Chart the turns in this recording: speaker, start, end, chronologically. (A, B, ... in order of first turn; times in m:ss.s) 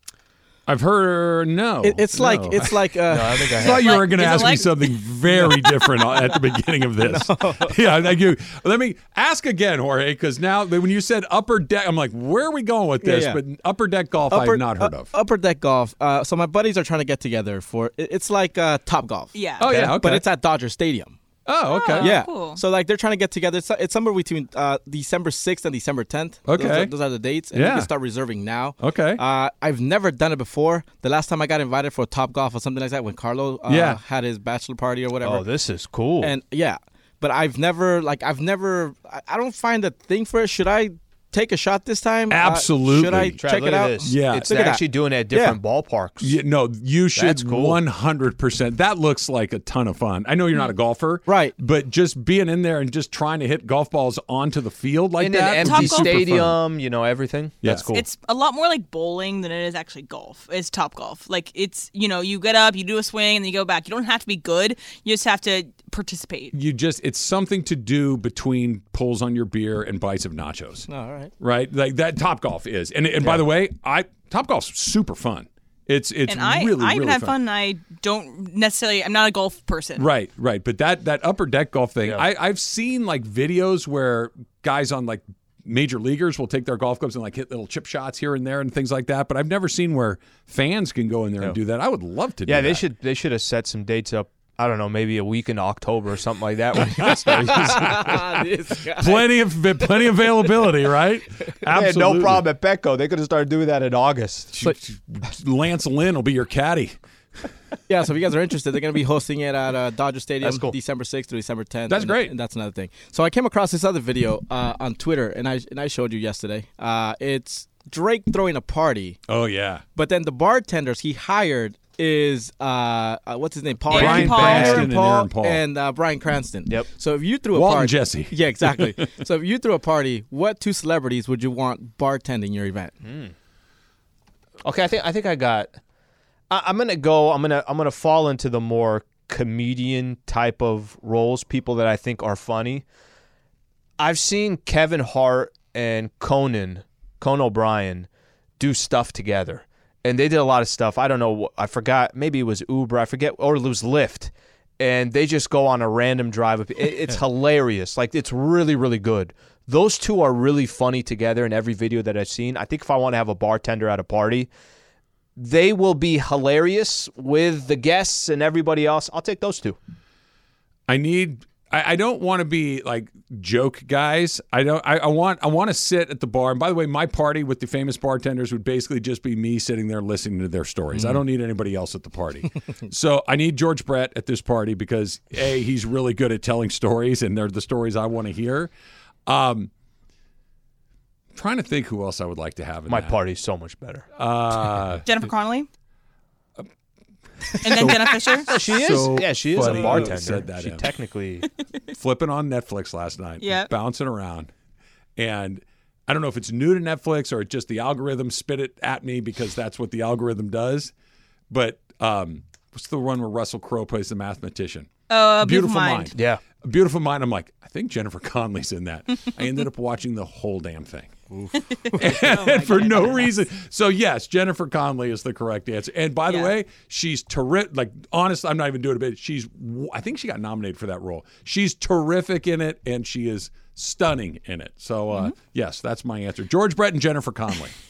0:00.6-0:02.9 A
0:01.8-0:03.8 B
0:03.1-0:04.0 C
0:03.4-0:15.1 A
0:03.6-0:05.8 D
0:07.0-0:07.8 B
0:13.0-0:13.4 B
0:14.3-0:21.2 B
0:19.3-0:19.6 D
0:19.6-0:20.2 A
0:21.4-0:22.2 A
0:21.7-0:22.6 D
0:22.0-0:35.5 B
0:26.4-0:26.9 A
0:27.5-0:27.9 A
0:28.8-0:29.2 A
0:33.7-0:34.0 A
0:35.2-0:36.3 C
0:36.2-0:45.6 B
0:42.3-0:43.4 A
0:43.4-0:46.3 C
0:44.0-0:44.7 A
0:46.2-0:56.6 A
0:47.1-0:47.8 C
0:51.3-0:51.5 B
0:55.2-0:58.0 C
0:55.6-0:56.2 D
0:57.6-0:57.9 A
0:57.9-1:06.5 D
1:06.5-1:10.8 A
1:10.9-1:11.3 B
1:11.4-1:17.3 A
1:16.3-1:20.0 D
1:20.0-1:32.8 A
1:32.4-1:38.0 C
1:36.7-1:42.4 A
1:37.4-1:40.6 B
1:41.7-1:44.6 C
1:44.5-1:46.9 A
1:47.9-1:59.2 B
1:50.4-1:50.7 C
1:51.9-1:52.3 A
1:59.3-1:59.8 A
2:00.0-2:12.9 B
2:03.9-2:04.9 D
2:03.9-2:05.6 A
2:07.5-2:09.1 A
2:13.0-2:13.3 C
2:14.6-2:15.8 C
2:16.5-2:22.8 C
2:24.0-2:28.1 C
2:28.6-2:44.5 C
2:45.4-2:49.8 C
2:50.9-3:08.7 A
3:00.9-3:01.2 B
3:09.2-3:09.7 A
3:11.3-3:13.2 A
3:12.9-3:14.0 C
3:14.2-3:15.0 A
3:15.0-3:15.7 D
3:17.6-3:20.9 A
3:17.6-3:18.5 D
3:18.5-3:21.4 C
3:22.0-3:24.5 A
3:23.4-3:23.7 D
3:25.2-3:30.9 A
3:31.5-3:34.9 A
3:35.1-3:36.1 D
3:35.4-3:41.1 A
3:36.1-3:36.4 C
3:41.3-3:42.0 B
3:41.7-3:43.3 D
3:41.9-3:57.7 A
3:46.3-3:46.5 D